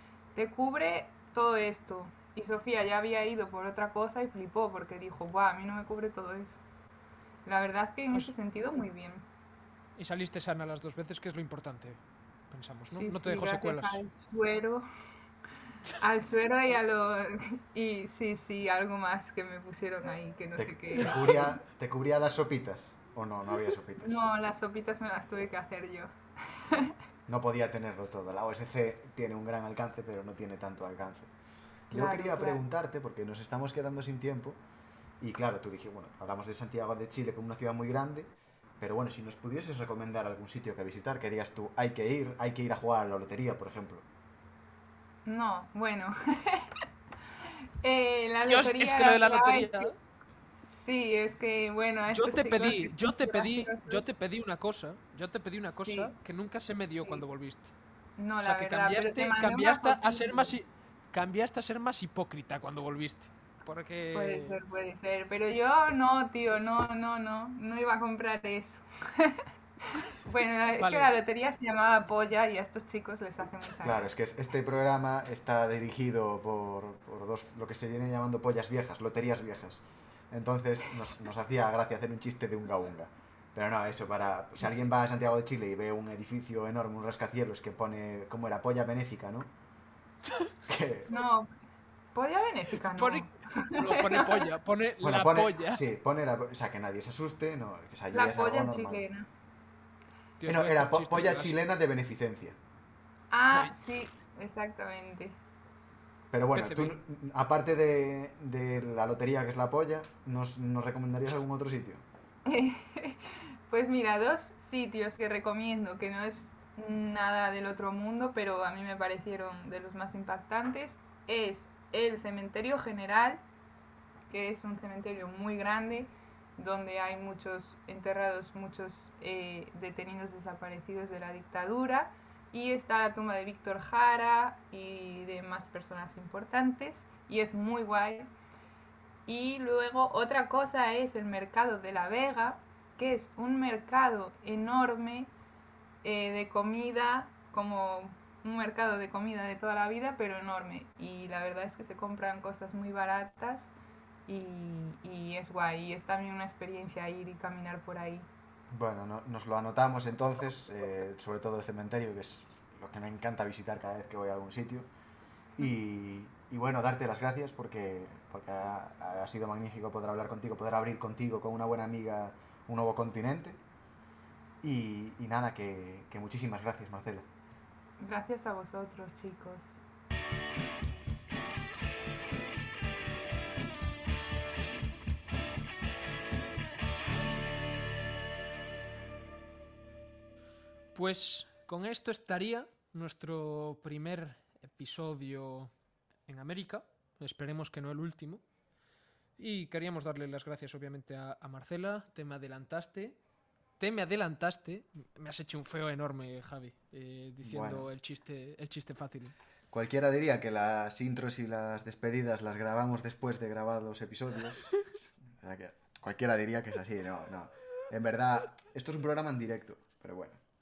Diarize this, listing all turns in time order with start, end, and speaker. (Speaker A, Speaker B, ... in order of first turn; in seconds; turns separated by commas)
Speaker A: 0.3-6.6, Speaker A: 7.4-9.2, Speaker B: 10.0-14.0, Speaker A: 12.9-14.8, Speaker A: 16.0-21.6, Speaker C: 20.6-24.2, Speaker A: 24.0-26.9, Speaker C: 27.3-31.3, Speaker A: 31.9-32.6, Speaker C: 31.9-34.6, Speaker C: 35.2-44.1, Speaker A: 45.3-46.8, Speaker A: 47.4-49.9, Speaker B: 48.4-50.0, Speaker A: 50.7-54.1, Speaker B: 52.1-57.7, Speaker A: 55.8-56.1, Speaker A: 58.2-60.5, Speaker B: 58.4-64.6, Speaker A: 64.1-74.1, Speaker B: 70.8-71.1, Speaker C: 73.8-89.5, Speaker C: 90.7-91.1, Speaker A: 91.1-91.5, Speaker A: 92.1-94.5, Speaker B: 92.9-95.8, Speaker C: 95.0-99.0, Speaker A: 98.1-99.3, Speaker B: 100.4-101.6, Speaker C: 100.5-102.6, Speaker A: 103.3-105.4, Speaker C: 106.3-112.0, Speaker B: 106.5-107.0, Speaker A: 112.5-123.4, Speaker A: 124.3-138.3, Speaker A: 139.3-145.3, Speaker A: 146.0-153.7, Speaker A: 154.3-158.3, Speaker C: 158.7-164.9, Speaker C: 165.6-173.6, Speaker C: 174.6-177.3, Speaker A: 178.0-179.8, Speaker B: 190.9-195.7, Speaker B: 196.3-198.4, Speaker B: 199.4-203.2, Speaker B: 203.8-209.3, Speaker C: 207.4-207.9, Speaker C: 209.7-220.4